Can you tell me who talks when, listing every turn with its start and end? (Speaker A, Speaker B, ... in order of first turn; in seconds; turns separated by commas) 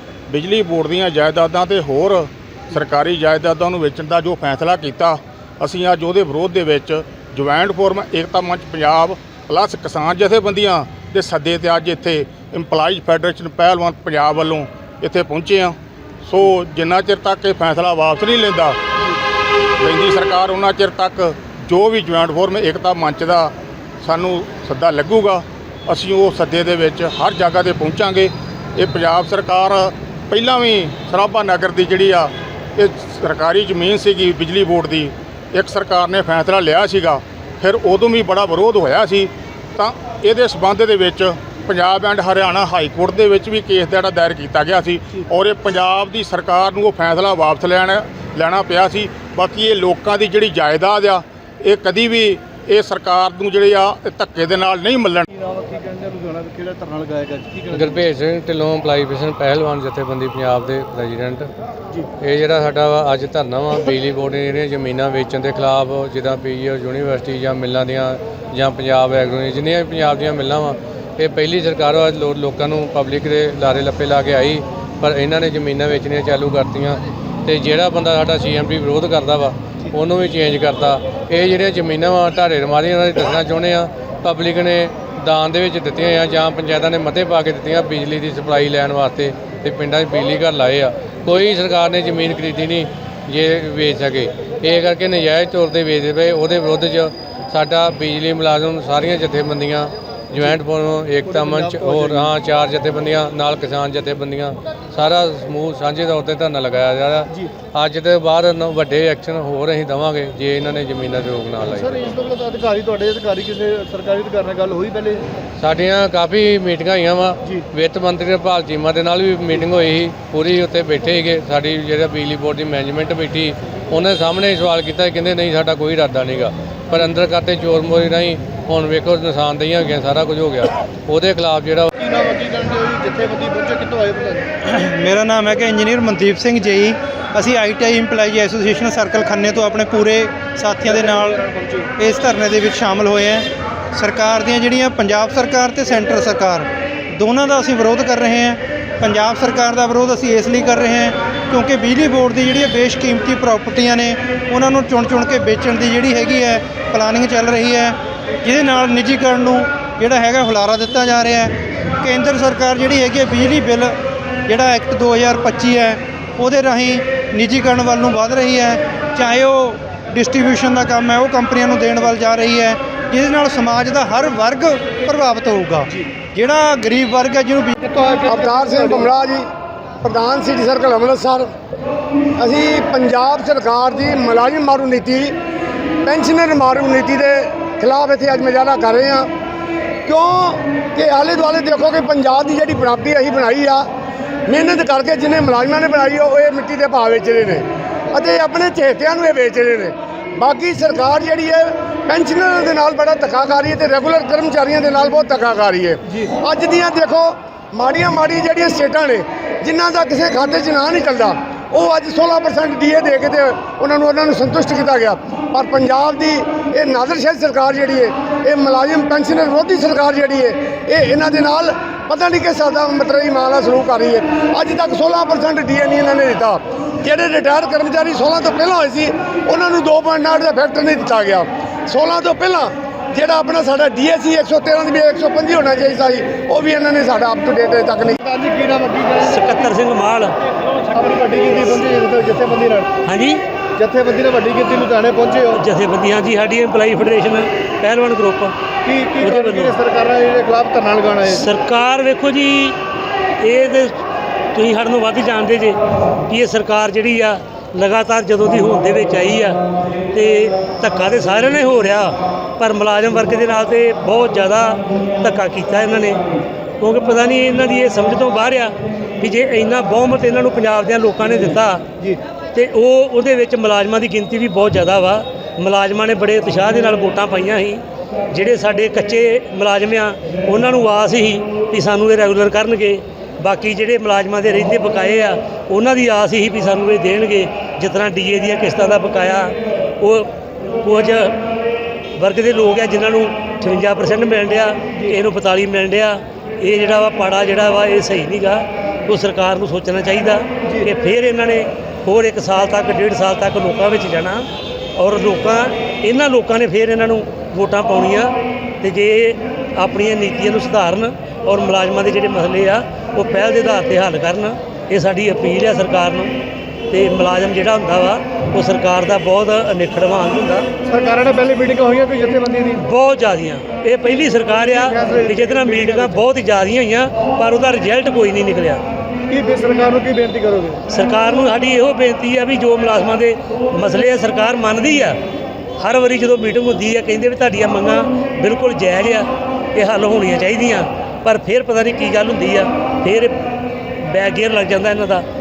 Speaker A: 0.3-18.8, Speaker A: 19.8-55.3, Speaker B: 55.3-57.9, Speaker C: 57.7-61.5, Speaker C: 62.2-112.2, Speaker B: 101.3-102.3, Speaker B: 111.8-115.2, Speaker C: 115.6-131.9, Speaker B: 132.0-134.5, Speaker D: 134.6-164.0, Speaker B: 141.5-141.9, Speaker D: 164.5-177.8, Speaker B: 177.8-179.0, Speaker E: 178.2-179.5, Speaker E: 180.0-181.5, Speaker E: 182.4-185.3, Speaker E: 186.0-189.3, Speaker E: 190.1-193.9, Speaker E: 194.5-238.2, Speaker B: 238.2-239.4, Speaker F: 239.2-240.9, Speaker B: 240.8-242.9, Speaker F: 243.0-243.4, Speaker B: 243.8-245.5, Speaker F: 245.5-248.5, Speaker B: 248.9-251.4, Speaker F: 249.2-249.8, Speaker F: 251.2-252.8, Speaker F: 253.4-254.0, Speaker F: 254.5-266.2, Speaker F: 266.8-271.9, Speaker F: 272.5-291.4, Speaker F: 292.2-316.4, Speaker F: 316.9-320.7, Speaker B: 320.9-322.8, Speaker F: 322.7-328.8, Speaker B: 324.7-326.2, Speaker B: 329.3-330.8, Speaker F: 330.9-335.2, Speaker F: 335.8-343.4, Speaker F: 344.0-345.3